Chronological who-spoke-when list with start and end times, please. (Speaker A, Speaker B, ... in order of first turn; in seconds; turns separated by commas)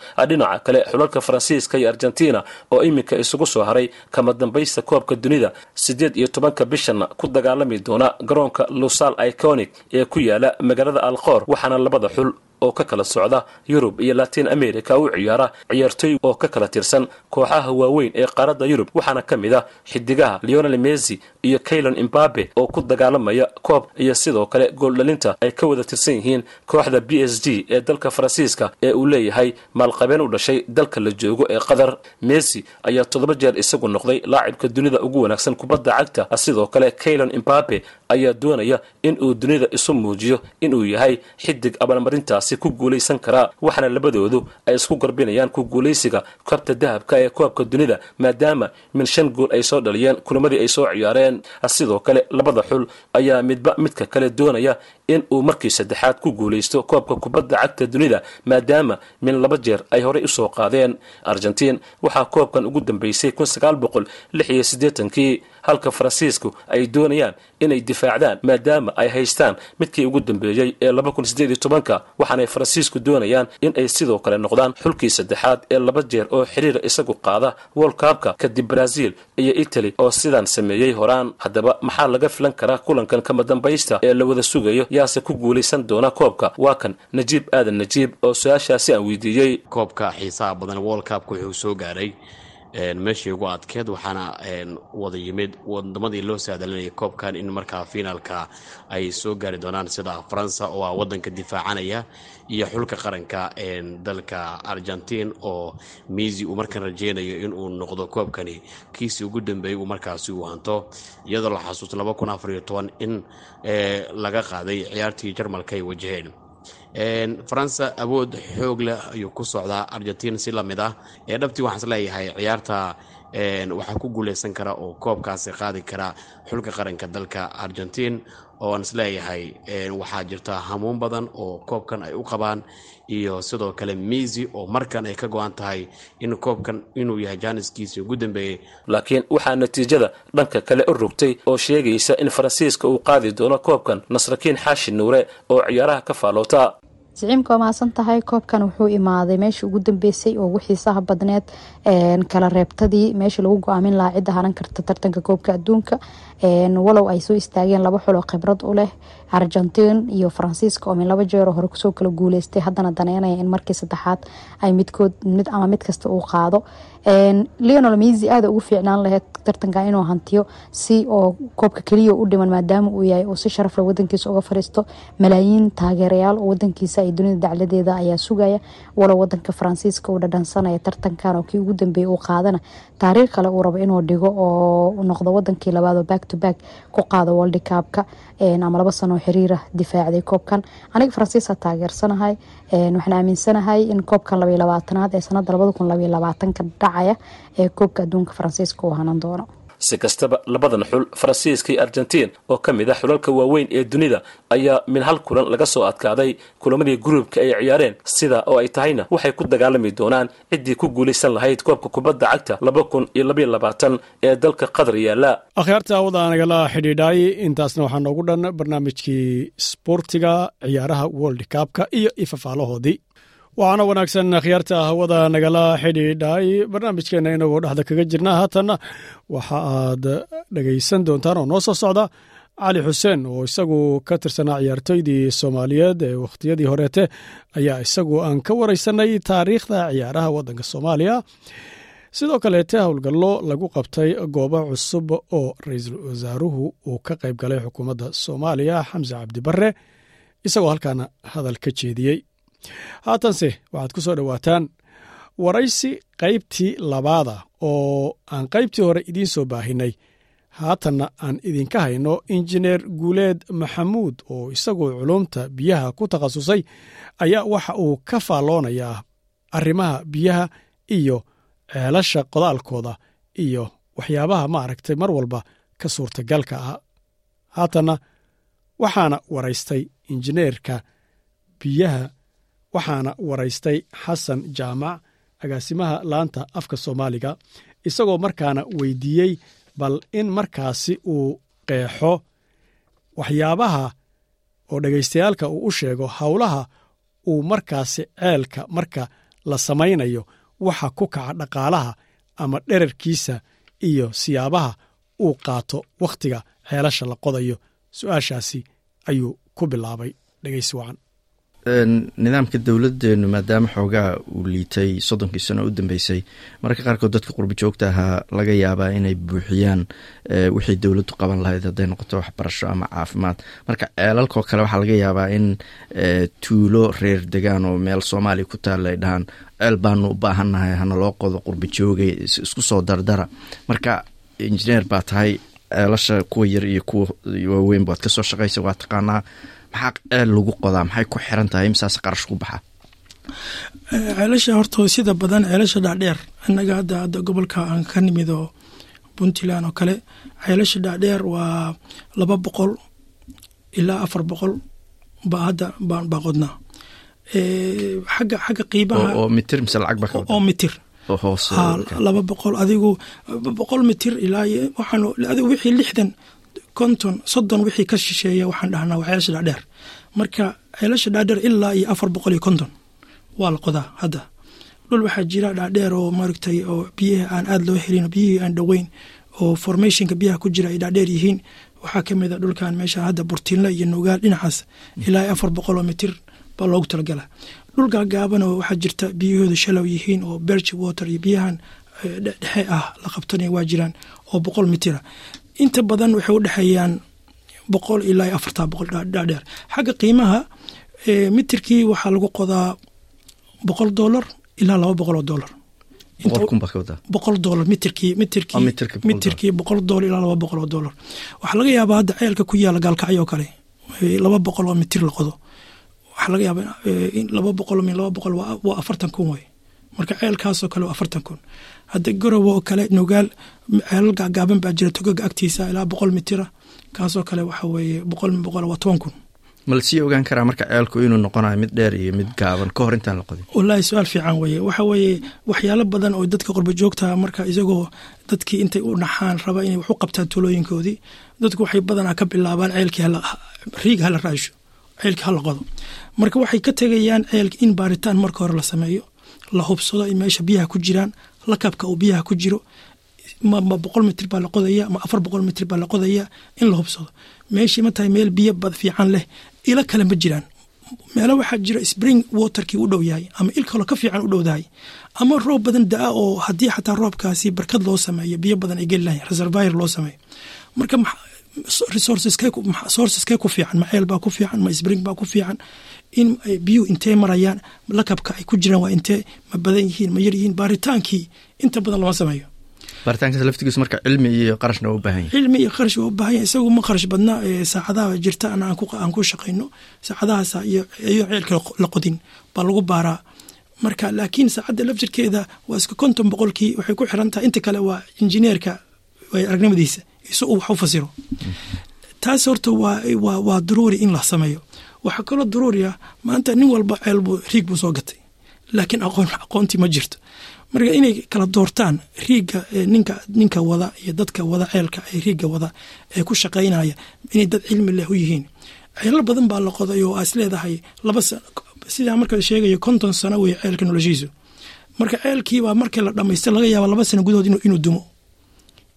Speaker A: 0.2-89.6, Speaker B: 89.7-92.2, Speaker B: 92.8-116.3, Speaker B: 117.0-138.6, Speaker A: 138.9-146.7, Speaker C: 147.2-155.9, Speaker C: 156.5-199.5, Speaker A: 199.8-215.4, Speaker D: 215.6-223.0, Speaker D: 223.6-228.8, Speaker D: 229.3-241.2, Speaker D: 242.1-249.7, Speaker D: 250.4-252.2, Speaker D: 253.1-254.7, Speaker D: 255.4-259.9, Speaker D: 260.6-266.6, Speaker D: 267.2-269.0, Speaker D: 269.6-276.8, Speaker D: 277.6-278.0, Speaker D: 278.8-280.8, Speaker D: 281.6-282.1, Speaker D: 282.7-292.2, Speaker D: 293.2-293.9, Speaker D: 294.7-296.7, Speaker D: 297.3-311.0, Speaker E: 311.7-342.6, Speaker F: 343.9-348.5, Speaker F: 349.2-352.8, Speaker F: 353.8-354.6, Speaker F: 355.3-356.5, Speaker F: 357.4-359.2, Speaker E: 358.9-360.4, Speaker F: 360.1-360.8, Speaker E: 361.1-362.0, Speaker F: 361.5-366.1, Speaker F: 366.8-369.6, Speaker F: 370.2-372.7, Speaker F: 373.4-374.3, Speaker F: 374.9-395.0, Speaker F: 395.6-397.0, Speaker F: 397.7-400.5, Speaker F: 401.1-402.7, Speaker F: 403.7-405.5, Speaker F: 406.2-406.5, Speaker E: 406.2-407.0, Speaker F: 407.1-415.4, Speaker E: 408.5-409.4, Speaker F: 416.2-421.4, Speaker F: 421.9-429.1, Speaker E: 429.7-433.4, Speaker F: 433.5-445.6, Speaker F: 446.2-452.6, Speaker F: 453.4-460.4, Speaker F: 461.2-464.7, Speaker F: 465.2-470.2, Speaker F: 470.8-475.6, Speaker F: 476.1-482.5, Speaker E: 483.1-485.3, Speaker F: 485.3-493.2, Speaker F: 493.8-498.8, Speaker F: 499.3-501.1, Speaker F: 502.2-508.2, Speaker F: 508.8-510.2, Speaker F: 510.7-518.5, Speaker F: 519.0-524.3, Speaker F: 525.0-528.0